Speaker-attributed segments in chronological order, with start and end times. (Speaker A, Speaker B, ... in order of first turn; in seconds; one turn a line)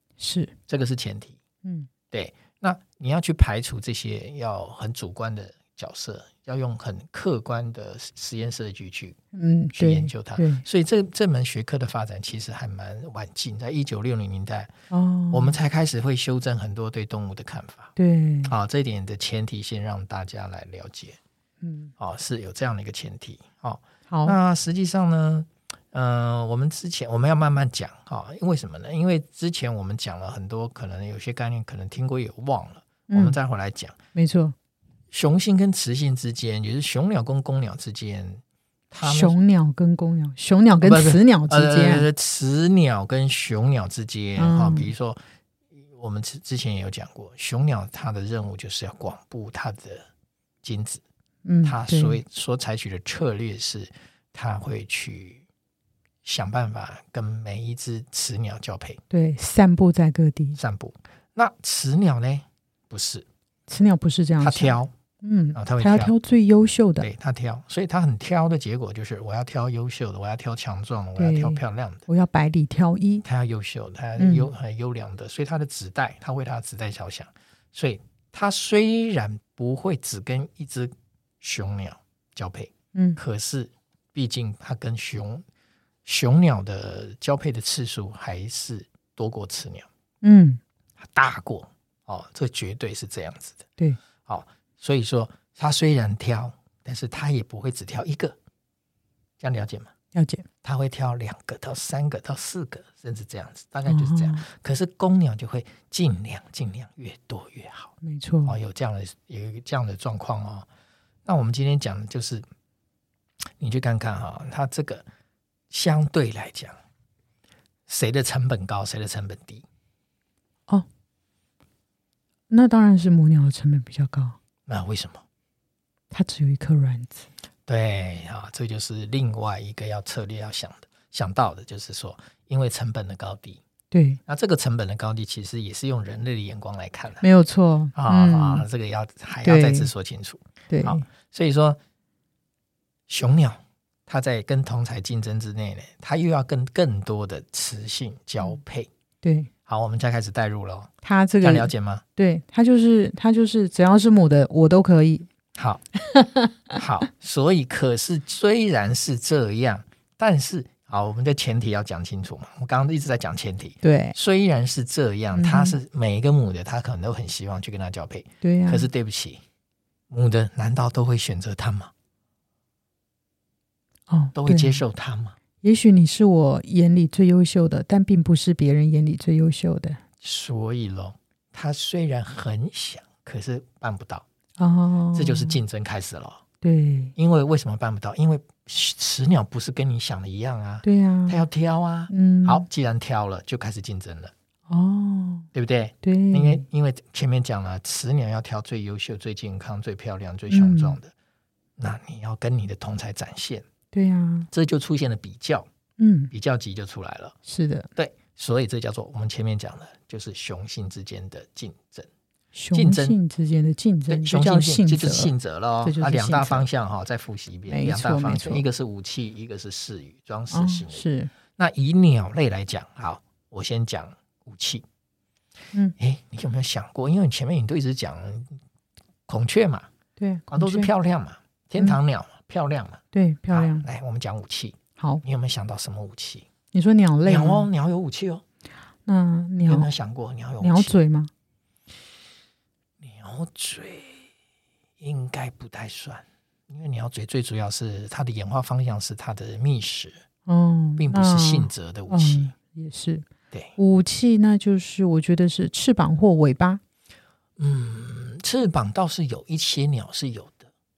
Speaker A: 0.2-0.5
Speaker B: 0.7-1.4
Speaker B: 2.1-9.2
Speaker A: 9.3-10.6
Speaker B: 9.7-14.7
Speaker A: 14.9-15.5
Speaker B: 15.3-17.9
Speaker A: 17.9-18.5
Speaker B: 18.4-21.2
Speaker A: 21.6-21.9
Speaker B: 22.0-33.9
Speaker A: 24.1-24.4
Speaker A: 33.1-33.4
Speaker A: 34.1-34.5
Speaker B: 35.1-39.4
Speaker A: 39.0-42.1
Speaker B: 40.8-45.2
Speaker A: 44.4-44.9
Speaker B: 45.9-50.0
Speaker B: 50.6-51.0
Speaker A: 51.4-52.2
Speaker B: 51.6-55.4
Speaker B: 56.2-59.0
Speaker A: 59.1-60.6
Speaker B: 60.5-63.2
Speaker A: 63.7-67.1
Speaker B: 64.4-64.9
Speaker B: 65.5-66.1
Speaker B: 67.0-72.0
Speaker A: 71.2-73.2
Speaker B: 73.2-85.4
Speaker A: 74.2-74.5
Speaker A: 82.9-83.2
Speaker B: 86.0-89.9
Speaker A: 90.2-90.6
Speaker B: 91.0-93.6
Speaker B: 94.2-98.3
Speaker B: 99.4-99.9
Speaker A: 100.1-100.4
Speaker B: 100.6-107.9
Speaker A: 103.9-104.4
Speaker A: 108.0-108.6
Speaker B: 108.5-110.7
Speaker B: 111.2-112.4
Speaker B: 113.6-115.0
Speaker B: 115.7-116.7
Speaker B: 117.9-119.6
Speaker A: 122.5-124.3
Speaker B: 124.7-125.2
Speaker A: 126.1-127.2
Speaker B: 127.7-133.6
Speaker A: 133.9-134.2
Speaker B: 134.3-137.2
Speaker A: 137.2-138.7
Speaker B: 137.9-141.8
Speaker A: 139.4-139.9
Speaker A: 140.7-141.0
Speaker B: 143.1-148.9
Speaker A: 149.2-149.5
Speaker B: 149.7-150.9
Speaker A: 151.0-155.3
Speaker B: 151.4-152.0
Speaker B: 155.6-155.8
Speaker A: 156.1-156.5
Speaker B: 156.7-169.4
Speaker A: 163.8-164.2
Speaker A: 165.3-165.8
Speaker A: 168.4-168.9
Speaker B: 170.1-171.9
Speaker A: 174.1-174.8
Speaker B: 174.3-175.3
Speaker A: 175.6-180.0
Speaker B: 180.2-184.2
Speaker A: 184.6-185.6
Speaker B: 185.1-186.4
Speaker A: 186.6-187.1
Speaker B: 187.2-194.3
Speaker A: 190.8-191.4
Speaker A: 192.1-192.7
Speaker A: 194.7-195.5
Speaker B: 195.5-201.1
Speaker A: 196.0-196.6
Speaker A: 200.5-201.0
Speaker B: 201.8-203.6
Speaker A: 203.9-204.5
Speaker B: 204.5-205.7
Speaker A: 206.0-206.3
Speaker B: 206.3-207.3
Speaker A: 207.4-207.9
Speaker B: 207.9-212.1
Speaker A: 212.5-216.7
Speaker B: 212.7-213.2
Speaker B: 214.1-221.0
Speaker A: 217.7-218.6
Speaker A: 220.5-221.3
Speaker B: 221.6-224.8
Speaker B: 226.0-228.6
Speaker B: 229.3-229.9
Speaker A: 230.2-230.9
Speaker B: 230.5-236.4
Speaker A: 233.1-233.8
Speaker A: 236.7-237.7
Speaker B: 237.2-238.4
Speaker A: 239.1-239.9
Speaker B: 239.7-241.0
Speaker A: 240.6-241.3
Speaker B: 243.0-244.3
Speaker B: 245.0-250.2
Speaker A: 250.5-253.2
Speaker B: 251.0-252.5
Speaker A: 253.8-256.8
Speaker B: 257.6-260.7